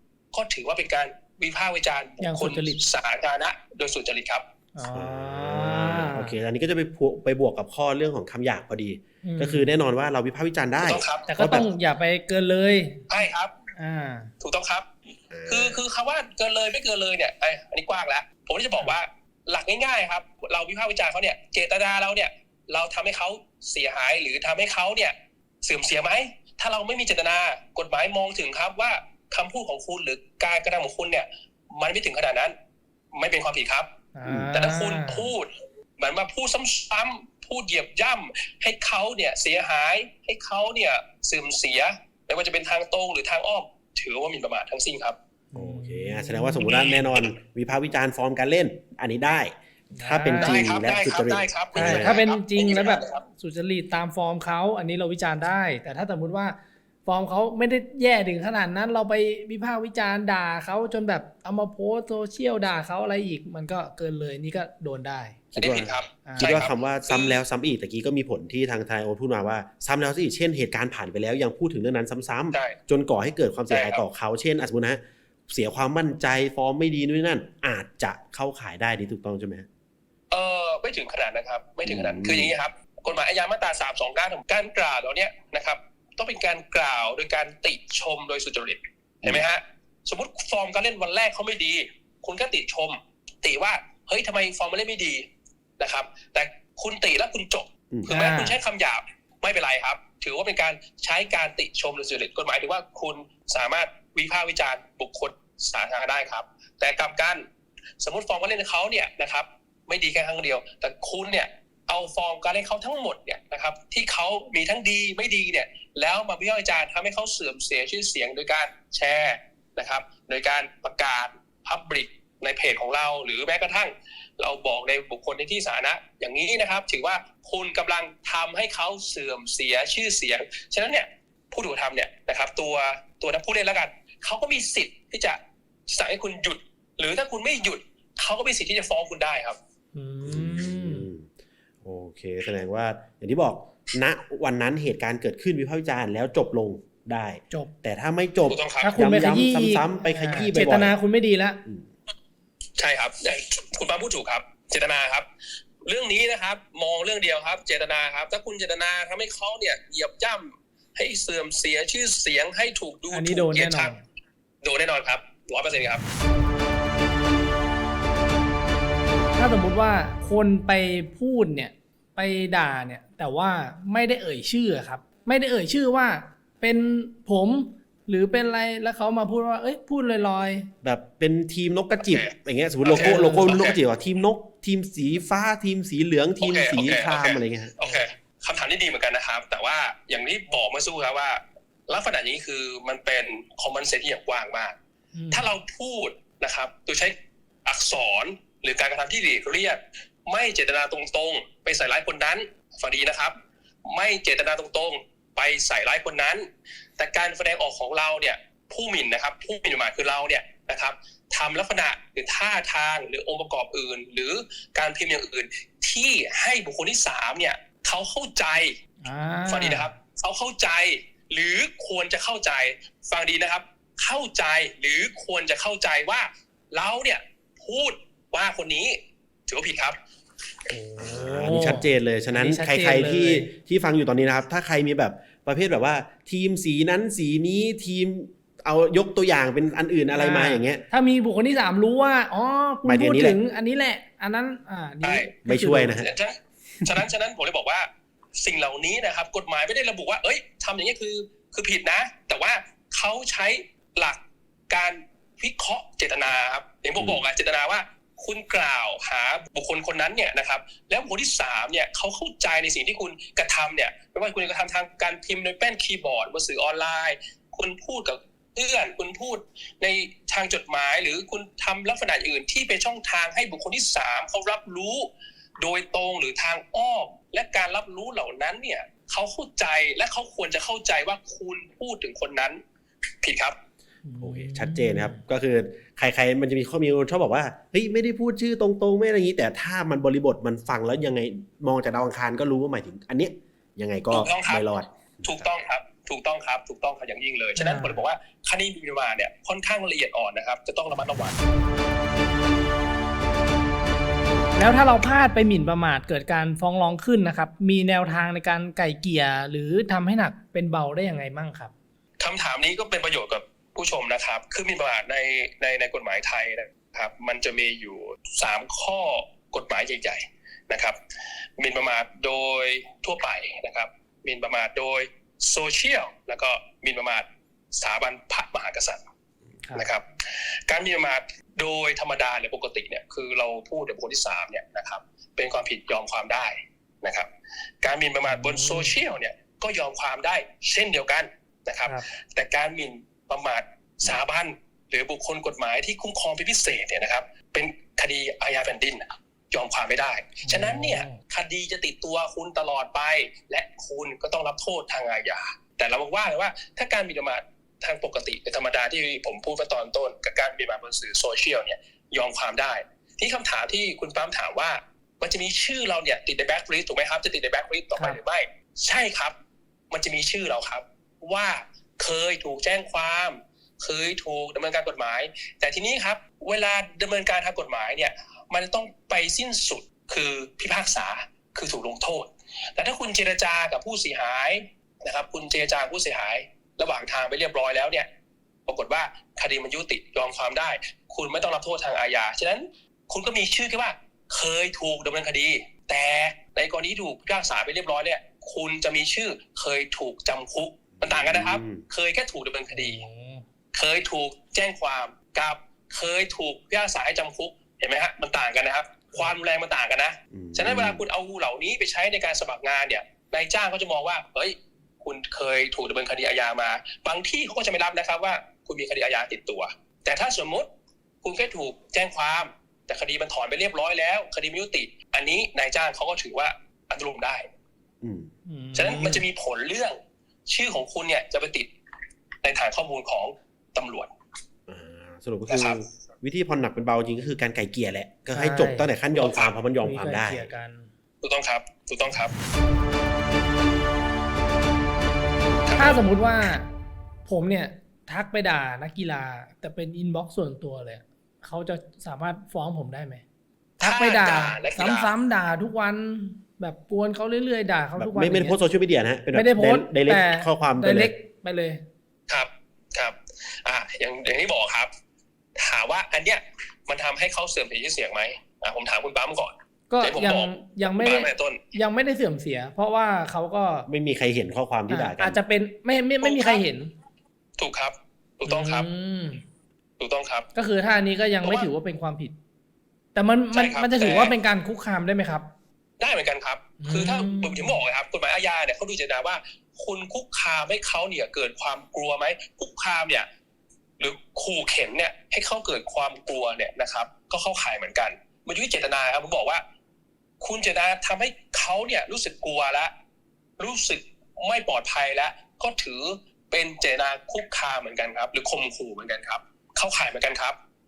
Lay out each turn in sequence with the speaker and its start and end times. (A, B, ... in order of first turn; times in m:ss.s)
0:00.3-0:04.5 A
0:02.2-0:02.8 B
0:04.8-0:06.4 B
0:04.9-0:11.7 C
0:09.2-0:09.7 B
0:10.8-0:11.3 A
0:11.3-0:13.1 B
0:13.1-0:13.5 A
0:13.8-0:14.3 B
0:14.4-0:14.9 A
0:15.3-0:15.8 C
0:15.5-0:32.6 A
0:33.1-0:33.9 A
0:34.2-0:35.3 B
0:34.2-0:34.5 C
0:34.5-0:45.2 A
0:45.5-0:47.0 B
0:45.5-0:52.2 C
0:50.0-0:50.6 B
0:50.4-0:53.2 A
0:51.8-1:05.4 B
1:05.5-1:19.7 C
1:05.6-1:07.4 A
1:06.3-1:06.5 B
1:12.5-1:12.8 A
1:13.7-1:14.0 A
1:20.3-1:35.3 A
1:21.9-1:22.5 C
1:35.8-1:47.5 A
1:37.9-1:38.2 C
1:38.1-1:38.6 B
1:48.0-2:19.6 A
2:20.0-2:21.1 B
2:20.2-2:21.3 C
2:21.8-2:31.0 C
2:28.5-2:29.0 A
2:28.8-2:31.6 B
2:32.8-2:35.3 A
2:35.8-2:43.9 A
2:43.1-2:44.0 B
2:44.6-2:46.0 A
2:49.4-3:00.7 B
3:00.8-3:07.8 C
3:02.0-3:02.3 A
3:02.8-3:03.8 A
3:02.9-3:03.6 B
3:06.4-3:14.8 A
3:15.1-3:15.5 B
3:15.3-3:38.8 A
3:39.0-3:39.9 B
3:39.5-3:50.0 A
3:50.7-3:53.5 B
3:51.0-4:00.8 C
4:00.1-4:06.0 B
4:02.8-4:03.4 C
4:05.0-4:05.3 A
4:05.5-4:06.1 C
4:06.0-4:42.6 A
4:43.2-4:43.6 A
4:44.0-4:45.2 B
4:44.2-4:55.4 C
4:54.1-4:54.6 A
4:55.2-5:01.4 A
4:57.6-4:58.0 B
5:04.6-5:11.7 B
5:12.2-5:21.0 A
5:21.6-5:29.0 A
5:29.8-5:37.3 A
5:37.8-6:09.4 A
5:38.3-5:39.0 B
5:50.4-5:51.2 B
6:09.9-6:28.1 A
6:28.7-6:43.1 A
6:41.0-6:41.8 C
6:42.7-6:43.4 B
6:43.8-7:00.7 A
6:50.3-6:51.0 C
7:01.2-7:07.5 A
7:08.0-7:08.3 C
7:08.5-7:09.2 B
7:08.8-7:11.7 A
7:12.4-7:14.1 A
7:14.7-7:20.5 C
7:15.5-7:15.8 A
7:18.3-7:18.9 B
7:19.2-7:19.5 A
7:19.8-7:20.9 B
7:21.2-7:22.3 A
7:25.7-7:26.0 A
7:25.8-7:26.7 B
7:27.3-7:33.2 B
7:33.8-7:38.6 B
7:33.8-7:35.1 A
7:38.0-7:41.1 C
7:39.3-7:41.8 B
7:42.3-7:44.9 A
7:45.6-7:51.6 A
7:49.9-7:53.9 B
7:53.9-7:55.4 C
7:54.9-7:56.9 B
7:56.2-7:56.6 A
7:57.6-7:58.9 A
7:58.4-7:59.4 B
8:00.0-8:00.5 A
8:00.6-8:02.4 B
8:03.2-8:05.5 B
8:03.5-8:04.3 A
8:06.0-8:13.3 A
8:06.8-8:07.8 B
8:14.0-8:19.6 A
8:20.4-8:22.9 A
8:23.6-8:30.6 A